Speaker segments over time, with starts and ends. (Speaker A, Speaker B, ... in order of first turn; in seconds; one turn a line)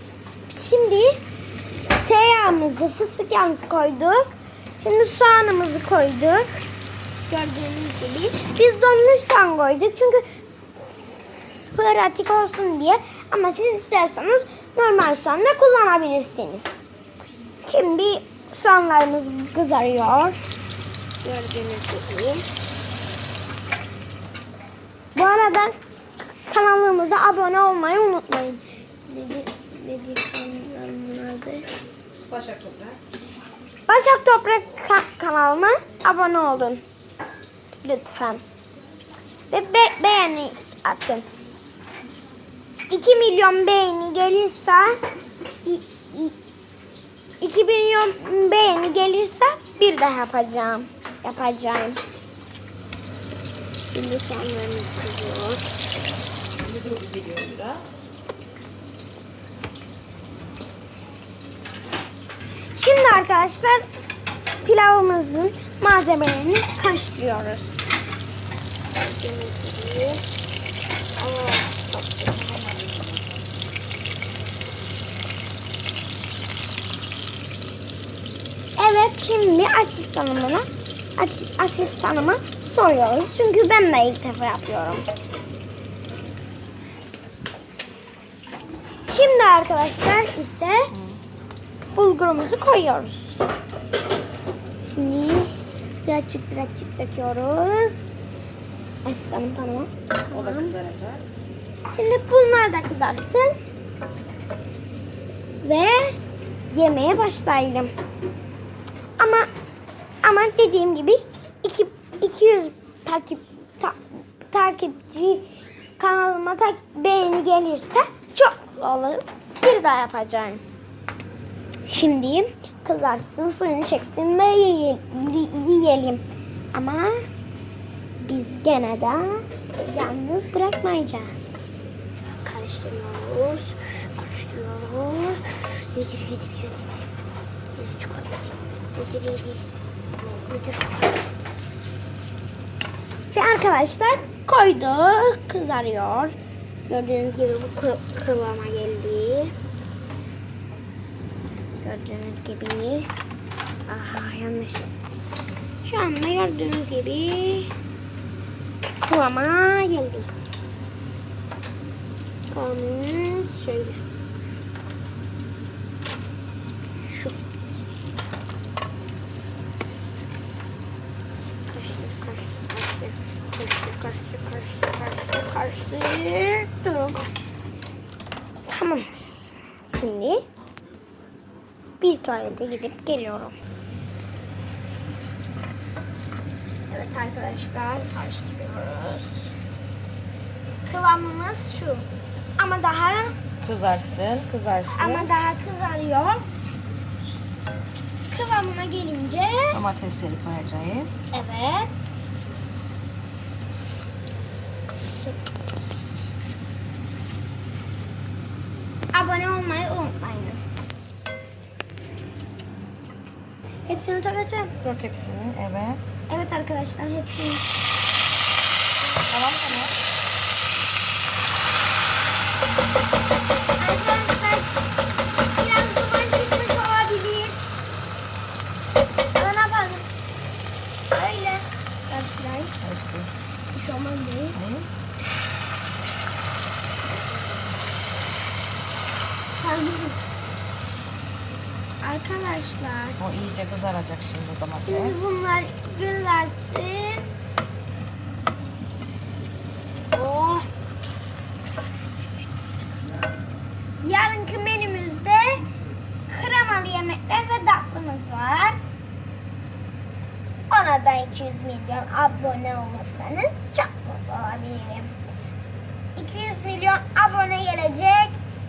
Speaker A: 0.5-1.2
Speaker A: 2.0-6.7
Speaker A: 7.2-10.2
Speaker A: 11.7-16.7
Speaker A: 17.6-20.4
Speaker A: 21.2-22.4
Speaker A: 25.1-25.7
Speaker A: 26.5-31.6
Speaker B: 32.3-33.0
Speaker A: 33.9-36.8
Speaker A: 37.8-38.4
Speaker A: 39.5-41.2
Speaker A: 42.9-45.0
Speaker A: 45.6-46.4
Speaker A: 47.4-52.0
Speaker A: 53.9-55.6
Speaker B: 56.6-57.9
Speaker A: 62.7-63.9
Speaker A: 64.6-67.7
Speaker A: 68.9-70.2
Speaker A: 71.2-72.9
Speaker A: 78.8-85.1
Speaker A: 89.1-90.9
Speaker B: 90.9-91.2
Speaker A: 91.9-93.4
Speaker A: 94.9-98.1
Speaker A: 99.0-100.8
Speaker B: 100.3-101.2
Speaker A: 101.9-103.6
Speaker A: 105.6-106.2
Speaker A: 106.7-107.9
Speaker A: 109.2-109.5
Speaker A: 110.2-115.5
Speaker A: 116.0-120.6
Speaker A: 121.8-127.2
Speaker A: 128.2-131.6
Speaker A: 132.4-136.8
Speaker A: 137.8-139.6
Speaker A: 140.4-141.3
Speaker A: 143.3-146.3
Speaker A: 146.9-149.5
Speaker A: 151.8-153.1
Speaker A: 153.9-154.9
Speaker A: 155.8-157.7
Speaker A: 159.0-160.3
Speaker A: 162.5-164.0
Speaker A: 167.0-167.3
Speaker A: 171.7-177.2
Speaker A: 178.7-179.1
Speaker A: 179.9-180.4
Speaker A: 182.0-183.5
Speaker A: 186.9-189.4
Speaker A: 190.8-192.1
Speaker A: 192.6-193.3
Speaker B: 193.6-195.3
Speaker A: 194.9-196.4
Speaker A: 198.3-199.8
Speaker B: 199.7-201.2
Speaker A: 201.3-201.9
Speaker A: 205.0-205.4
Speaker A: 209.1-210.7
Speaker A: 213.9-214.7
Speaker B: 214.8-216.0
Speaker A: 216.3-217.7
Speaker B: 219.3-219.9
Speaker A: 223.8-224.7
Speaker A: 225.5-227.6
Speaker A: 229.3-230.0
Speaker A: 231.1-232.8
Speaker B: 232.8-233.3
Speaker A: 233.7-234.6
Speaker B: 234.5-234.9
Speaker A: 239.6-240.2
Speaker A: 242.0-243.2
Speaker B: 243.2-245.2
Speaker A: 244.9-247.3
Speaker A: 250.1-250.7
Speaker A: 254.0-255.7
Speaker A: 256.3-258.8
Speaker A: 260.7-265.1
Speaker A: 266.1-268.4